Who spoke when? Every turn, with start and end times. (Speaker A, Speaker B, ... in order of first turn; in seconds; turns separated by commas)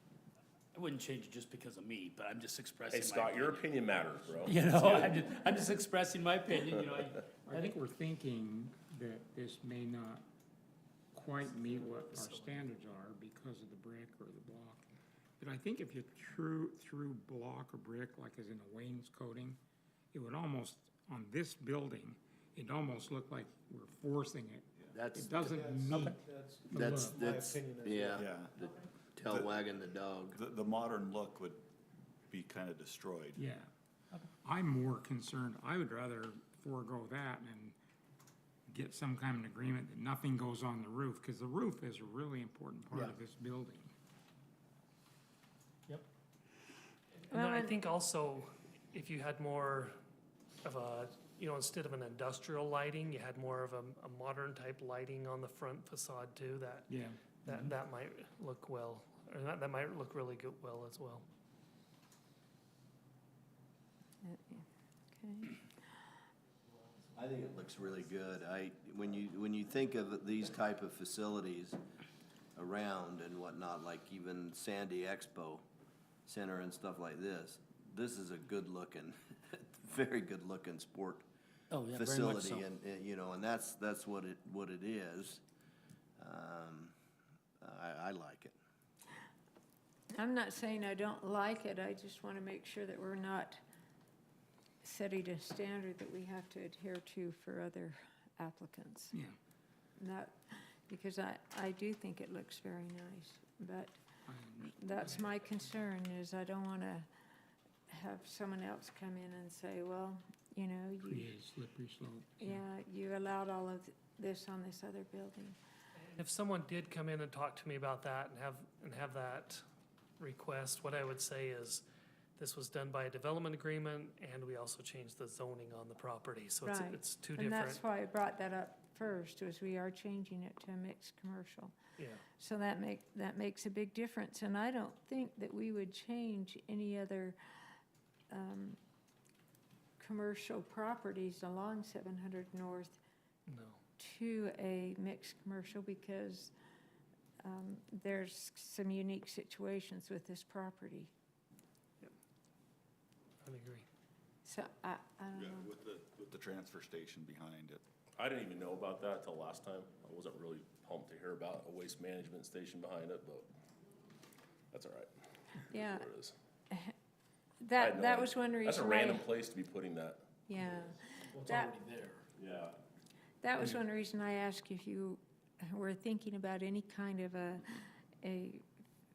Speaker A: 0.7-3.8, Speaker B: 2.9-5.7, Speaker A: 4.4-7.7, Speaker B: 6.5-7.1, Speaker C: 7.4-10.2, Speaker C: 11.1-19.6, Speaker A: 11.3-12.5, Speaker C: 20.1-26.2, Speaker D: 24.9-26.1, Speaker A: 25.0-25.6, Speaker C: 26.7-27.3, Speaker D: 26.7-30.4, Speaker A: 27.2-28.1, Speaker E: 28.1-28.5, Speaker E: 29.2-29.6, Speaker E: 30.3-31.6, Speaker E: 32.3-33.4, Speaker C: 33.4-37.7, Speaker C: 38.7-43.9, Speaker F: 47.3-49.9, Speaker G: 47.3-47.7, Speaker F: 50.6-61.2, Speaker C: 56.9-57.2, Speaker G: 64.2-65.6, Speaker D: 67.1-71.8, Speaker D: 72.5-75.6, Speaker D: 76.2-81.2, Speaker A: 81.7-82.6, Speaker D: 81.9-85.4, Speaker D: 86.2-86.9, Speaker D: 87.6-88.5, Speaker G: 90.1-93.6, Speaker G: 94.8-99.1, Speaker G: 100.0-104.0, Speaker C: 104.3-105.4, Speaker G: 104.7-107.1, Speaker G: 107.9-111.3, Speaker C: 111.1-112.6, Speaker G: 112.4-115.6, Speaker F: 116.1-119.6, Speaker F: 120.2-121.8, Speaker F: 122.4-127.8, Speaker G: 126.6-131.7, Speaker F: 132.0-132.2, Speaker G: 132.4-137.4, Speaker G: 138.3-138.8, Speaker G: 140.0-143.0, Speaker F: 143.5-143.8, Speaker G: 144.0-146.5, Speaker G: 147.4-151.1, Speaker F: 153.4-153.8, Speaker G: 154.4-155.7, Speaker E: 155.3-157.8, Speaker B: 158.2-163.5, Speaker B: 164.7-165.1, Speaker B: 165.7-166.3, Speaker G: 165.7-166.1, Speaker G: 167.6-169.3, Speaker B: 167.8-170.9, Speaker G: 170.5-171.7, Speaker A: 171.3-172.2, Speaker B: 172.4-172.7, Speaker G: 173.4-178.6